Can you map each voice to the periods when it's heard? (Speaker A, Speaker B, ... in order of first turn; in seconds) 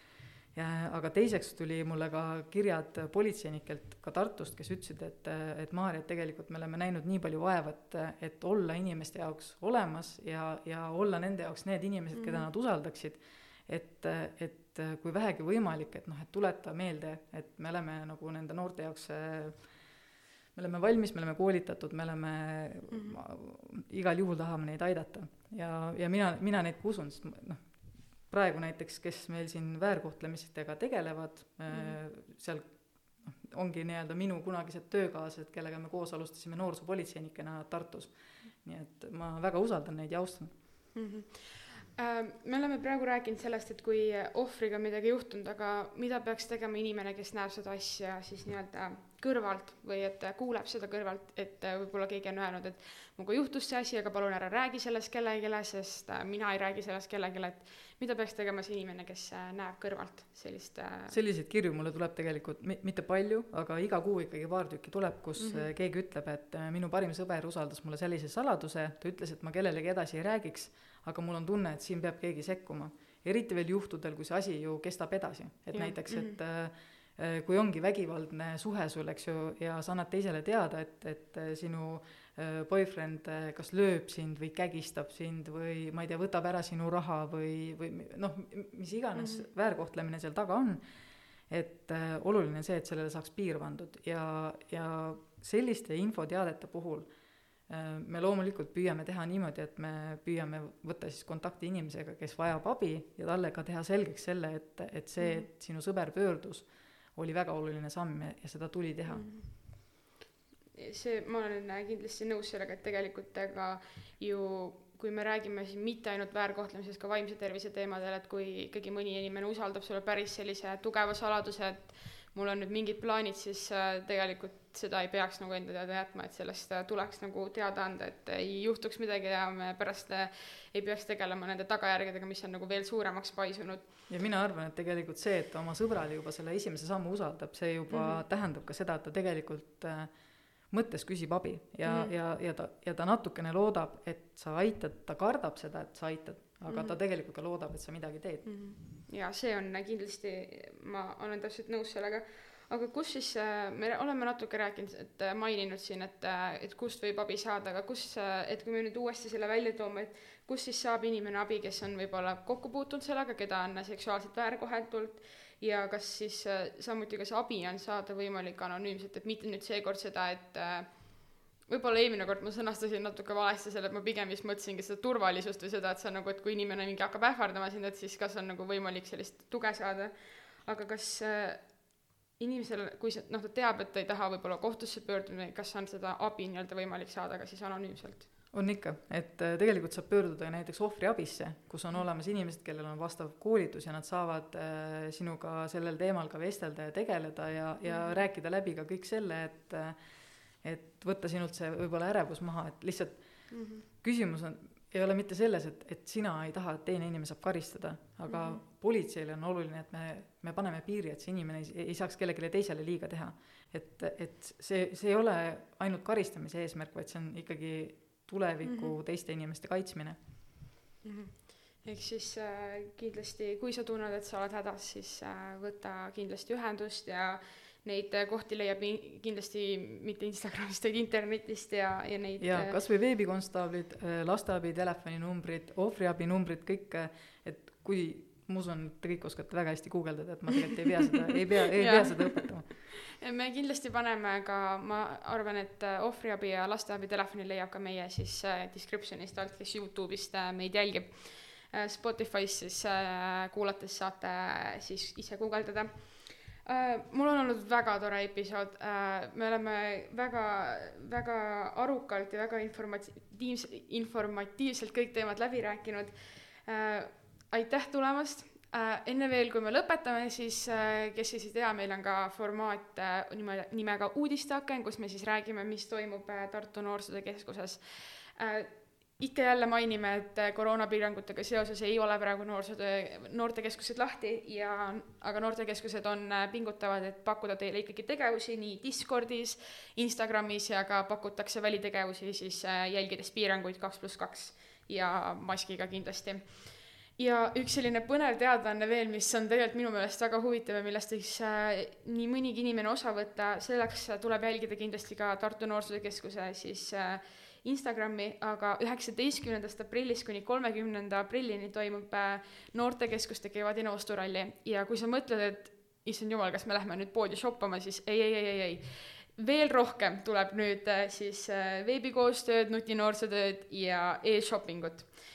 Speaker A: 0.5-19.6, 20.5-27.6, 28.3-32.6, 33.2-40.5, 61.1-90.8, 91.5-97.1, 97.7-109.3, 134.1-140.1, 140.7-148.5, 188.5-199.9, 200.6-203.2, 203.9-220.2, 232.4-242.7
Speaker B: 12.1-12.4, 22.9-23.2, 31.7-32.0, 40.9-61.1, 65.4-65.7, 75.7-76.3, 89.2-89.5, 105.2-105.5, 109.1-109.5, 110.8-133.9, 137.9-138.2, 141.8-142.1, 146.7-147.0, 148.4-170.9, 171.6-180.1, 180.6-181.7, 182.4-188.3, 197.8-198.2, 203.5-203.8, 208.3-208.6, 218.6-218.9, 221.0-232.8, 241.8-266.1, 266.6-277.8, 278.4-325.1